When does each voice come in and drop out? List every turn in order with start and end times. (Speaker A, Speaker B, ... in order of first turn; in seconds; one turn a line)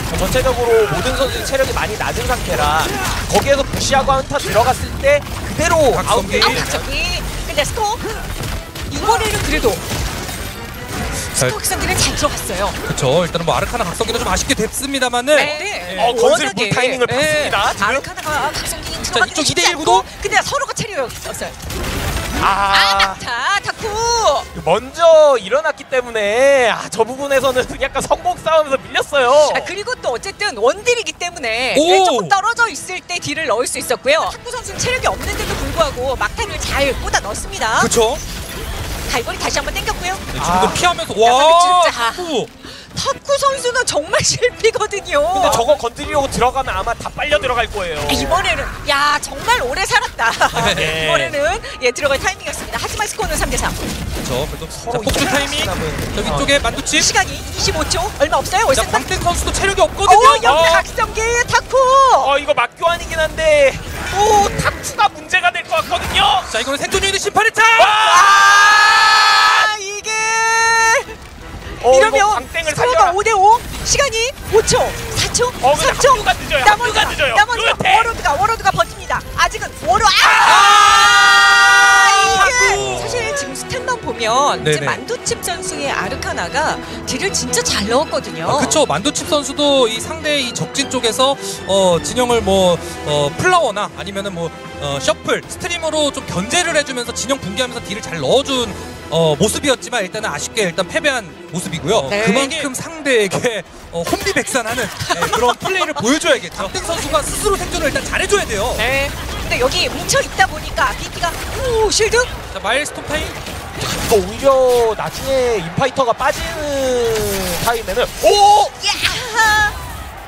Speaker A: 0.1-6.9
Speaker B: 5.9-6.7
Speaker C: 6.4-8.1
Speaker C: 8.9-9.8
Speaker C: 11.3-12.8
Speaker B: 12.9-16.2
Speaker C: 15.3-21.6
Speaker A: 16.0-18.1
Speaker B: 19.1-20.1
Speaker A: 22.4-23.2
Speaker C: 22.7-24.5
Speaker A: 24.5-29.7
Speaker C: 29.4-37.9
Speaker B: 31.7-32.4
Speaker B: 37.8-38.2
Speaker C: 39.1-40.3
Speaker B: 40.3-42.5
Speaker A: 40.4-40.9
Speaker C: 41.2-45.8
Speaker A: 45.3-48.4
Speaker C: 48.1-53.8
Speaker B: 50.5-51.0
Speaker A: 50.5-51.4
Speaker B: 54.2-57.1
Speaker A: 54.7-56.6
Speaker C: 56.8-59.1
Speaker B: 58.7-60.6
Speaker C: 60.0-62.3
Speaker A: 60.4-60.9
Speaker A: 62.2-66.5
Speaker B: 66.5-68.0
Speaker A: 67.8-69.7
Speaker C: 67.9-71.2
Speaker A: 71.8-73.2
Speaker C: 71.8-88.8
Speaker A: 75.6-78.2
Speaker A: 80.2-83.2
Speaker B: 80.5-81.0
Speaker B: 82.2-83.5
Speaker B: 84.6-85.0
Speaker B: 88.4-108.8
Speaker C: 102.1-102.7
Speaker C: 105.0-107.1
Speaker C: 108.8-112.3
Speaker B: 112.5-113.4
Speaker A: 113.8-118.5
Speaker C: 118.3-119.8